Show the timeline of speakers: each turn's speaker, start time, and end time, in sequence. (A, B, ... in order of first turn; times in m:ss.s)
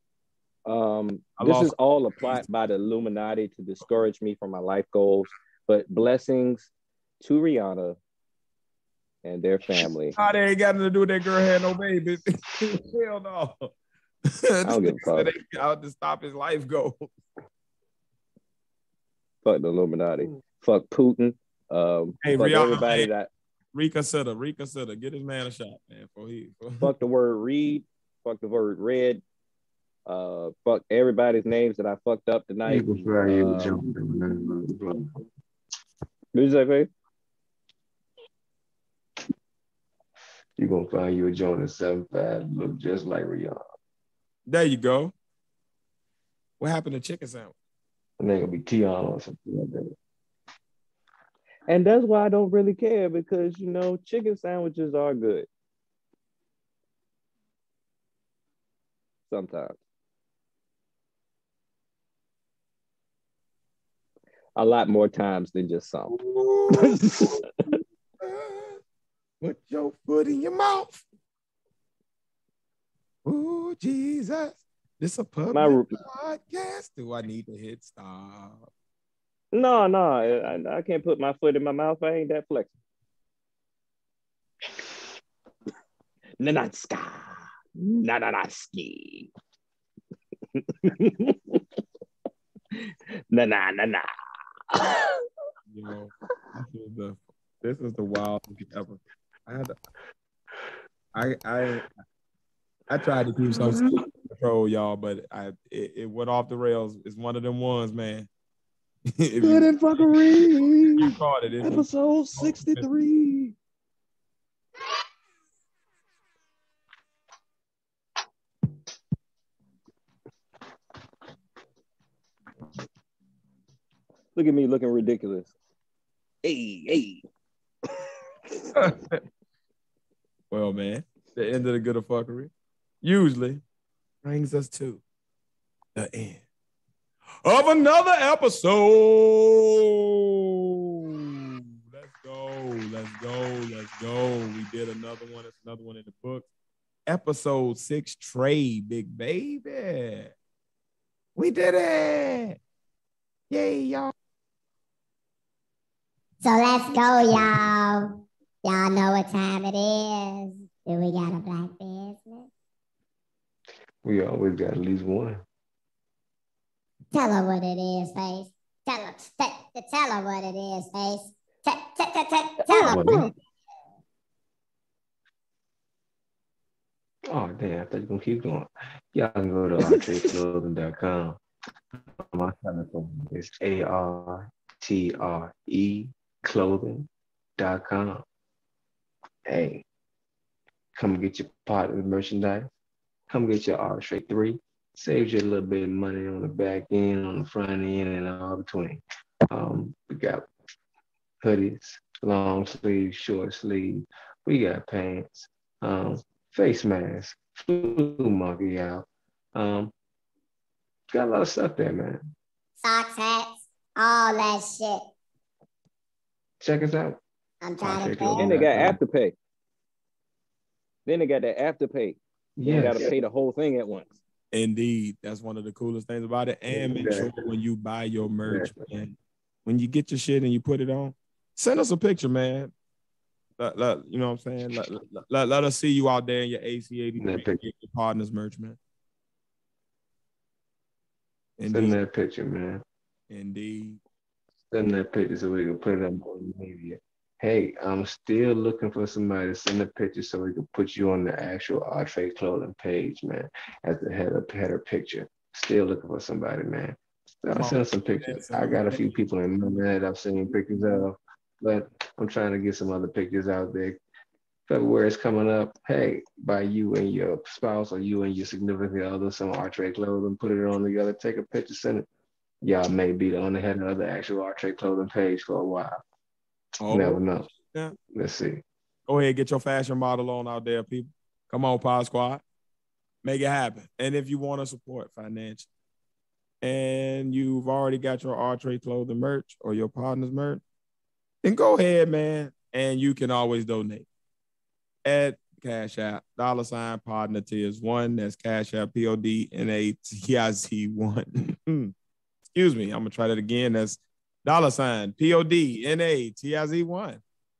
0:00.6-0:08.0 A
0:01.4-0:02.4 B
0:09.2-0:10.2 A
0:10.2-0:13.7 B
0:14.3-0:17.1 B
0:14.6-0:15.3 A
0:19.4-0:23.3 A
0:22.2-0:23.1 B
0:23.7-0:26.9 B
0:26.8-0:29.2 A
0:30.1-0:33.8 A
0:32.6-0:35.1 C
0:36.3-0:36.9 A
0:40.6-0:43.6 C
0:44.5-0:45.1 B
0:46.6-0:47.5 B
0:48.2-0:49.9 C
0:51.7-0:55.5 A
0:59.3-0:59.8 A
1:04.6-1:06.1 A
1:06.1-1:07.4 B
1:06.7-1:07.7 A
1:08.2-1:08.8 B
1:09.4-1:11.0 B
1:13.2-1:18.7 B
1:15.5-1:16.0 A
1:19.5-1:22.7 A
1:26.4-1:29.3 A
1:30.5-1:31.6 A
1:32.8-1:34.1 A
1:34.7-1:35.1 A
1:35.7-1:39.7 B
1:41.1-1:41.9 B
1:42.9-1:48.3 B
1:43.6-1:44.0 A
1:49.2-1:51.8 B
1:49.4-1:53.5 A
1:52.4-1:52.8 B
2:04.3-2:05.5 A
2:06.4-2:07.2 A
2:08.7-2:09.2 B
2:10.5-2:12.5 B
2:13.0-2:13.6 B
2:14.2-2:15.0 B
2:15.9-2:16.4 B
2:17.4-2:26.5 B
2:27.0-2:30.3 B
2:31.4-2:32.6 B
2:33.5-2:34.1 B
2:36.4-2:42.5 D
2:44.0-2:45.4 C
2:47.1-2:53.3 D
2:52.7-2:53.2 A
2:52.7-2:53.3 C
2:57.3-3:01.4 C
2:59.8-3:00.2 A
3:02.2-3:08.2 C
3:09.4-3:09.8 C
3:11.0-3:12.7 C
3:13.3-3:20.4 C
3:21.4-3:29.9 C
3:31.1-3:32.3 C
3:32.8-3:35.0 D
3:36.6-3:37.2 C
3:37.6-3:38.5 D
3:37.8-3:39.0 C
3:38.4-3:39.3 A
3:41.0-3:44.2 A
3:42.6-3:43.1 C
3:44.5-3:52.7 B
3:46.7-3:47.5 C
3:48.5-3:48.8 C
3:53.6-3:58.8 B
3:57.2-3:57.6 C
4:01.6-4:02.0 B
4:01.7-4:02.8 C
4:03.3-4:04.0 B
4:04.7-4:24.0 C
4:17.5-4:19.1 B
4:24.7-4:32.0 C
4:32.6-4:36.0 C
4:36.8-4:37.9 B
4:36.9-4:37.5 C
4:38.1-4:38.6 C
4:39.1-4:42.4 B
4:43.2-4:45.7 B
4:46.6-4:50.6 B
4:51.4-4:54.0 B
4:55.0-5:01.9 B
5:02.5-5:07.2 B